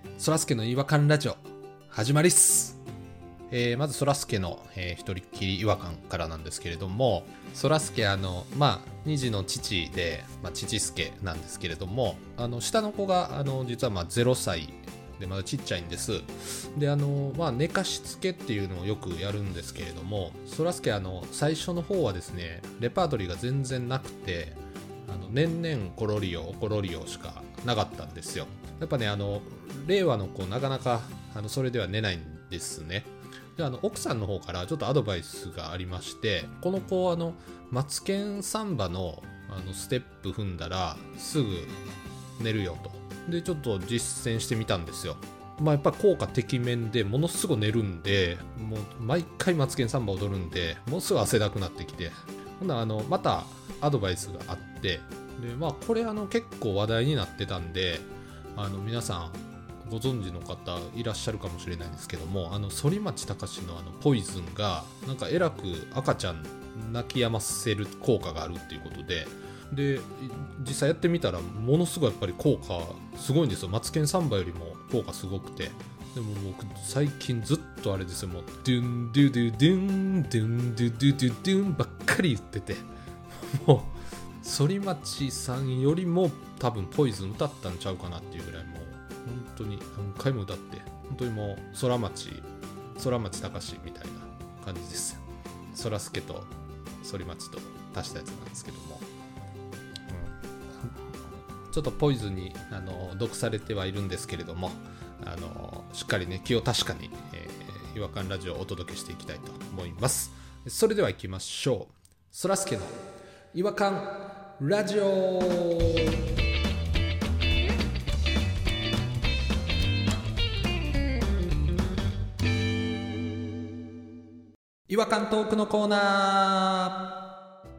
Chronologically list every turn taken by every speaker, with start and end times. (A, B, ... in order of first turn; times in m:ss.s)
0:00.2-0:02.8 A
0:03.5-0:41.8 A
0:42.4-1:39.0 A
1:40.1-1:40.9 A
1:41.7-1:53.0 A
1:53.5-1:56.2 A
2:04.9-2:07.0 A